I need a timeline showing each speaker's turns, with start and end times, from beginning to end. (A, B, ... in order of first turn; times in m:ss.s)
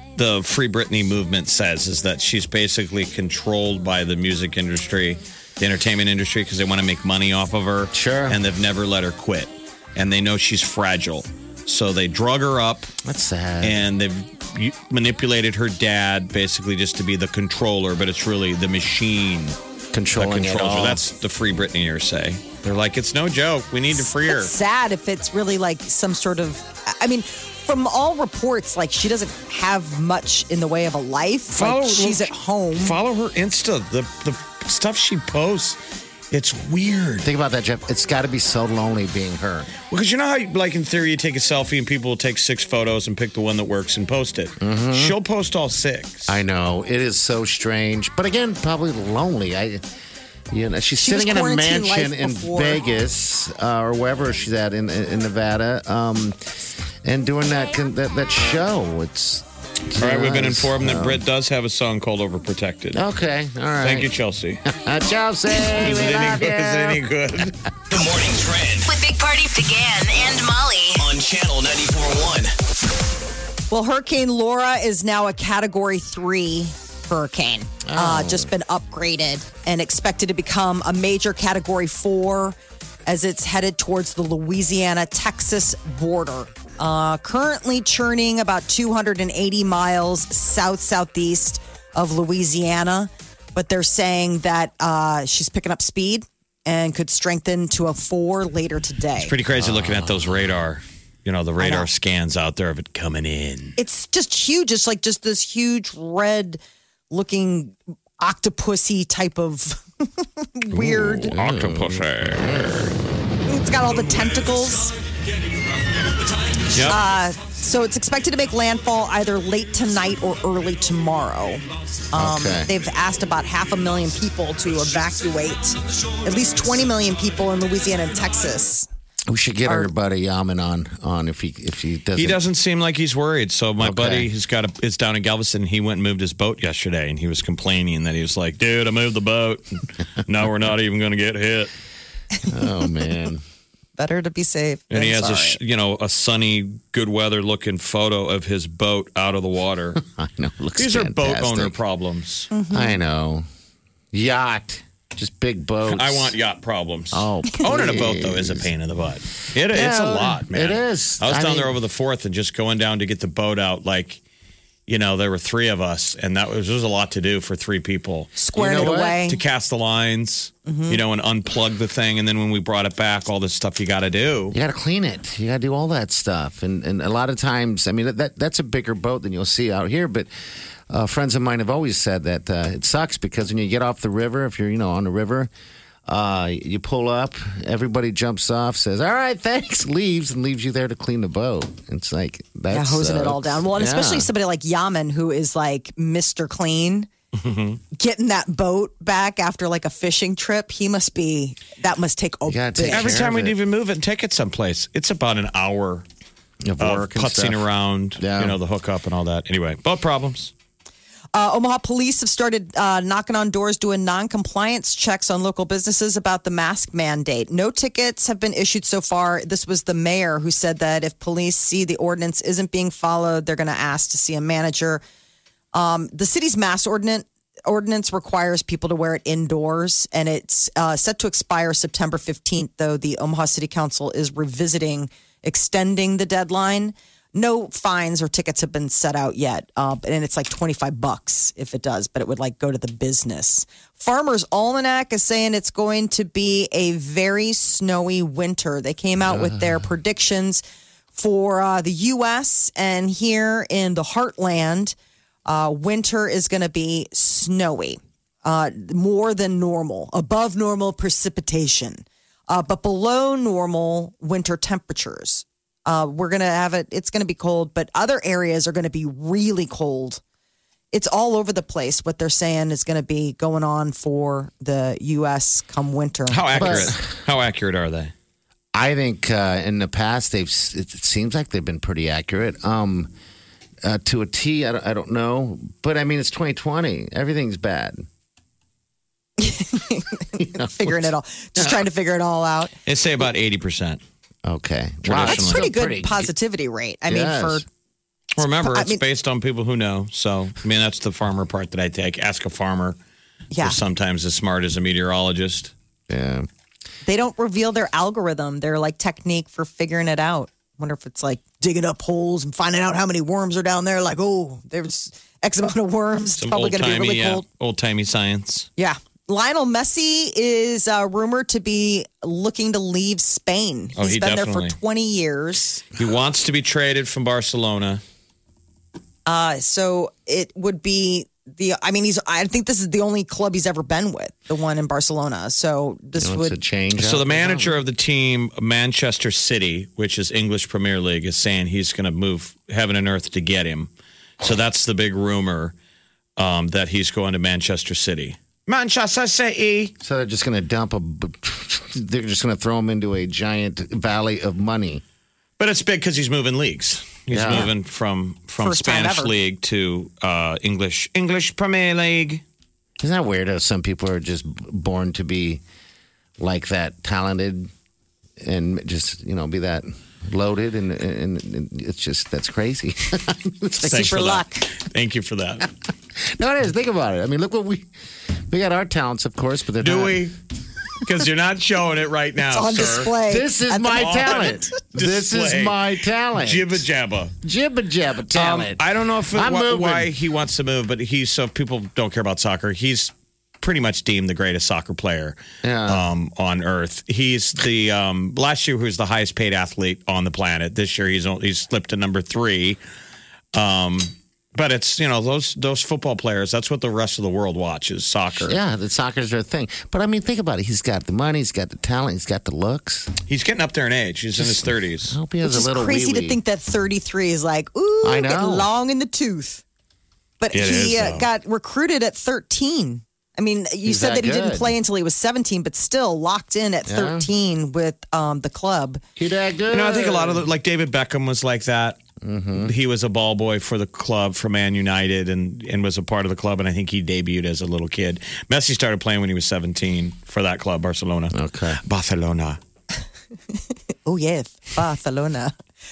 0:00.2-0:12.9 A
0:07.9-0:08.4 B
0:13.0-0:13.8 B
0:13.6-0:19.6 A
0:19.9-0:21.0 B
0:20.2-0:24.5 A
0:23.9-0:33.0 C
0:31.5-0:35.8 A
0:36.3-0:37.3 A
0:37.2-0:39.7 B
0:39.9-0:46.4 A
0:44.6-0:45.2 B
0:46.3-0:49.8 B
0:50.5-0:56.4 B
0:51.0-0:52.8 C
0:57.0-1:01.2 B
1:00.0-1:03.0 A
1:02.9-1:04.1 B
1:03.8-1:04.6 A
1:04.7-1:07.1 B
1:05.6-1:07.6 A
1:07.9-1:08.9 D
1:08.9-1:11.1 E
1:11.0-1:12.5 D
1:13.7-1:39.3 C
1:17.8-1:18.5 B
1:39.2-1:43.8 A
1:39.6-1:40.5 B
1:41.6-1:41.9 C
1:43.8-1:51.4 C
1:50.7-1:52.9 A
1:51.3-1:52.9 B
1:53.5-1:54.9 C
1:56.7-1:57.0 A
1:56.8-2:08.9 C
2:02.1-2:02.7 B
2:09.3-2:12.4 B
2:09.7-2:09.9 C
2:12.2-2:21.7 A
2:13.8-2:14.3 B
2:22.5-2:23.4 B
2:24.0-2:25.6 C
2:24.9-2:30.0 A
2:30.1-2:31.8 B
2:30.8-2:32.5 A
2:32.5-2:33.0 C
2:32.7-2:33.5 B
2:34.1-2:36.4 B
2:35.9-2:44.2 A
2:37.1-2:38.7 B
2:39.7-2:41.8 B
2:44.9-2:54.6 A
2:48.4-2:49.4 C
2:48.6-2:49.3 B
2:50.7-2:51.0 C
2:54.5-3:00.3 B
3:00.9-3:05.5 B
3:06.1-3:14.3 B
3:12.7-3:17.1 C
3:17.4-3:17.8 A
3:17.9-3:23.2 C
3:22.5-3:23.6 B
3:22.9-3:26.0 A
3:26.6-3:27.7 B
3:26.8-3:30.5 A
3:28.2-3:28.6 B
3:31.3-3:45.0 C
3:45.7-4:10.6 C
4:09.2-4:09.9 B
4:11.1-4:15.0 C
4:15.5-4:30.2 C
4:30.9-4:36.9 C
4:36.3-4:38.1 A
4:36.6-4:37.0 B
4:38.7-4:43.1 B
4:43.8-4:48.1 B
4:49.4-4:52.7 C
4:50.4-4:51.0 B
4:51.6-4:51.8 B
4:52.9-4:54.0 A
4:54.4-4:56.3 B
4:55.0-4:55.7 A
4:55.2-4:57.6 C
4:57.1-4:57.6 B
4:58.4-5:03.0 A
4:58.4-4:59.0 C
5:03.5-5:03.8 C
5:03.6-5:05.7 A
5:06.1-5:06.5 B
5:07.0-5:17.4 C
5:16.4-5:18.7 A
5:18.8-5:25.8 C
5:24.0-5:24.8 A
5:26.0-5:28.0 A
5:29.3-5:36.6 C
5:36.2-5:37.8 B
5:37.0-5:45.8 A
5:46.4-5:49.9 A
5:50.0-5:55.0 B
5:55.6-6:02.4 A
5:57.3-5:57.7 B
5:58.6-5:59.4 C
6:03.0-6:05.6 B
6:06.4-6:07.7 B
6:08.4-6:14.2 B
6:13.8-6:15.7 A
6:13.8-6:14.6 C
6:16.2-6:17.9 B
6:18.5-6:20.3 B
6:19.8-6:20.3 A
6:21.0-6:23.1 A
6:22.5-6:24.5 C
6:23.3-6:26.8 B
6:23.9-6:25.8 A
6:26.4-6:27.4 A
6:27.4-6:30.1 B
6:28.3-6:42.8 A
6:35.6-6:36.1 B
6:43.5-6:48.6 A
6:48.4-6:53.1 B
6:53.3-6:55.2 A
6:54.4-6:56.4 B
6:55.4-6:59.6 C
6:58.0-6:58.7 B
7:00.4-7:09.0 C
7:00.5-7:01.3 A
7:03.8-7:04.8 B
7:06.9-7:07.3 B
7:09.2-7:10.4 B
7:09.7-7:12.0 A
7:12.2-7:12.7 B
7:12.6-7:22.6 A
7:21.3-7:21.8 B
7:24.1-7:25.5 C